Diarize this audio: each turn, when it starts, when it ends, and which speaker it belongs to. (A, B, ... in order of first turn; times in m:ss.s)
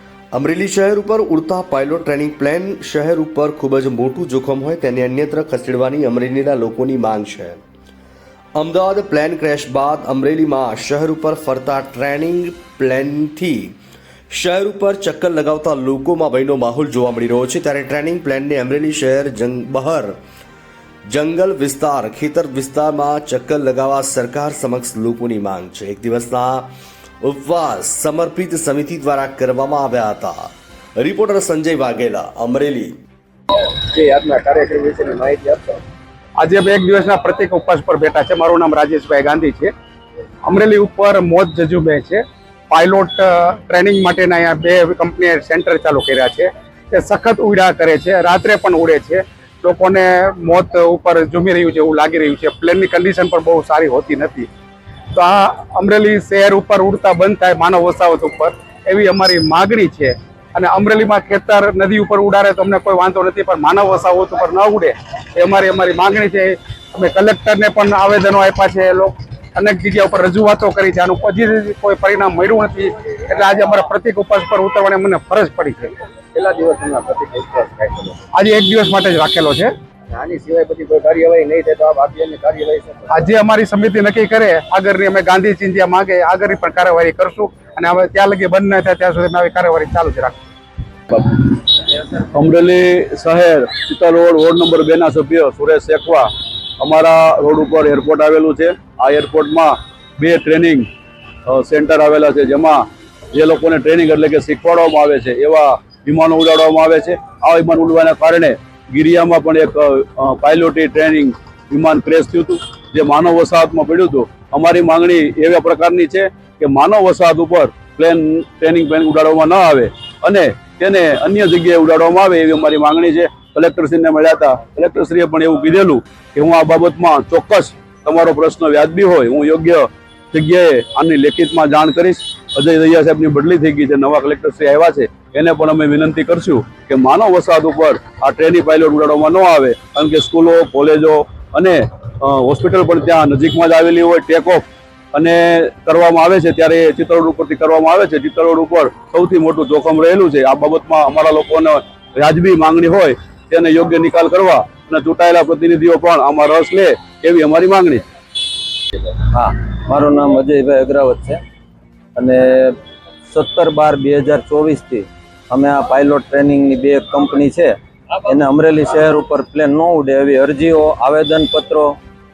0:00.3-0:07.6 A
0:08.6-0:13.8 A
0:14.3-0:20.2 A
0:21.1-0:26.7 A
0:27.2-0:33.0 A
0:33.9-0:35.8 B
0:36.4-0:39.7 C
0:40.5-0:54.5 C
0:55.1-1:16.0 C
1:16.3-1:18.2 B
1:18.3-1:19.7 C
1:20.1-1:23.1 B
1:23.1-1:30.4 C
1:31.1-1:36.3 D
1:36.8-1:40.9 D
1:41.5-2:38.0 D
2:39.3-2:41.4 E
2:42.2-2:42.8 E
2:43.3-2:52.0 E